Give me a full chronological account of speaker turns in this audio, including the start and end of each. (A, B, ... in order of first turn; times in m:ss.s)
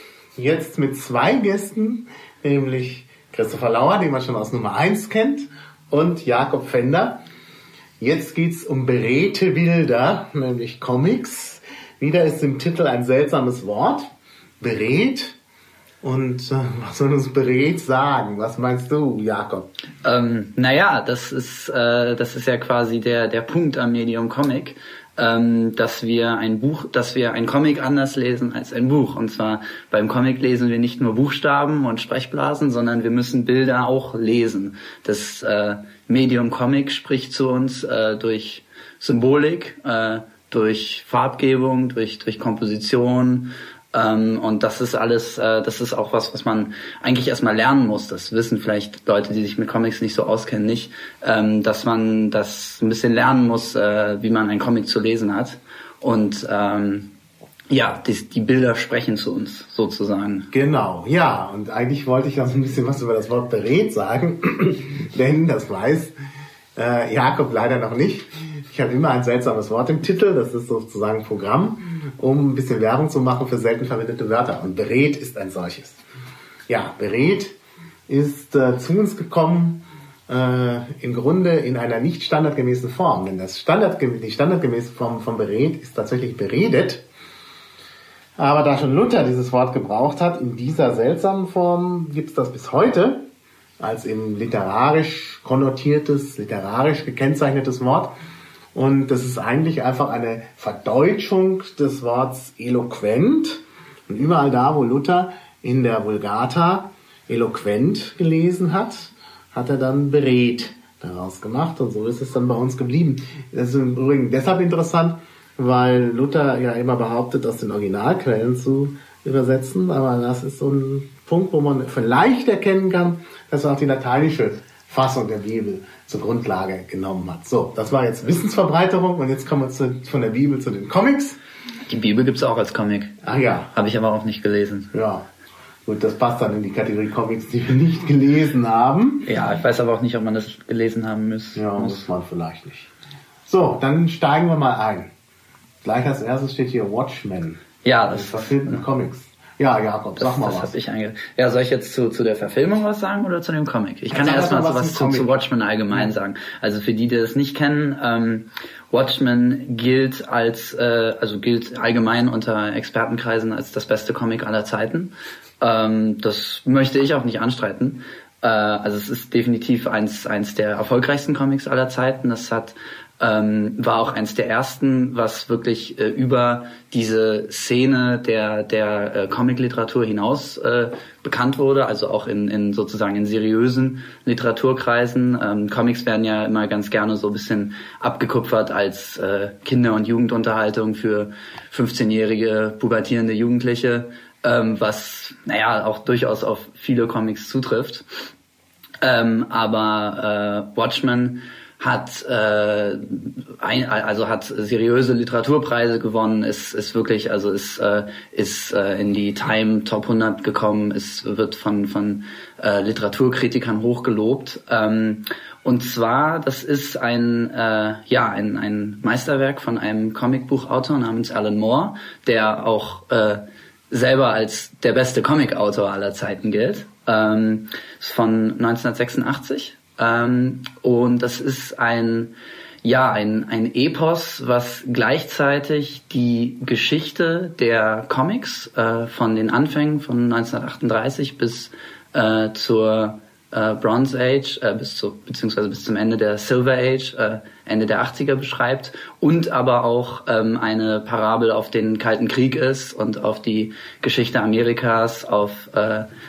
0:00.4-0:07.2 A
0:08.0-0:15.4 A
0:16.0-0:19.7 A
0:20.0-0:57.1 B
0:57.7-1:00.5 B
1:00.5-1:06.2 A
1:06.8-1:16.0 A
1:16.7-1:17.6 A
1:18.1-1:27.0 A
1:28.4-1:33.3 A
1:33.8-1:38.1 A
1:38.7-2:11.4 A
2:11.9-2:13.1 B
2:13.2-2:13.7 A
2:13.7-2:14.9 B
2:14.9-2:15.3 A
2:15.9-2:19.3 A
2:19.3-2:22.0 B
2:21.6-2:22.9 A
2:23.5-2:25.1 A
2:25.8-2:30.7 A
2:27.8-2:28.8 B
2:30.2-3:18.0 B
2:34.1-2:35.4 A
3:19.0-4:16.1 B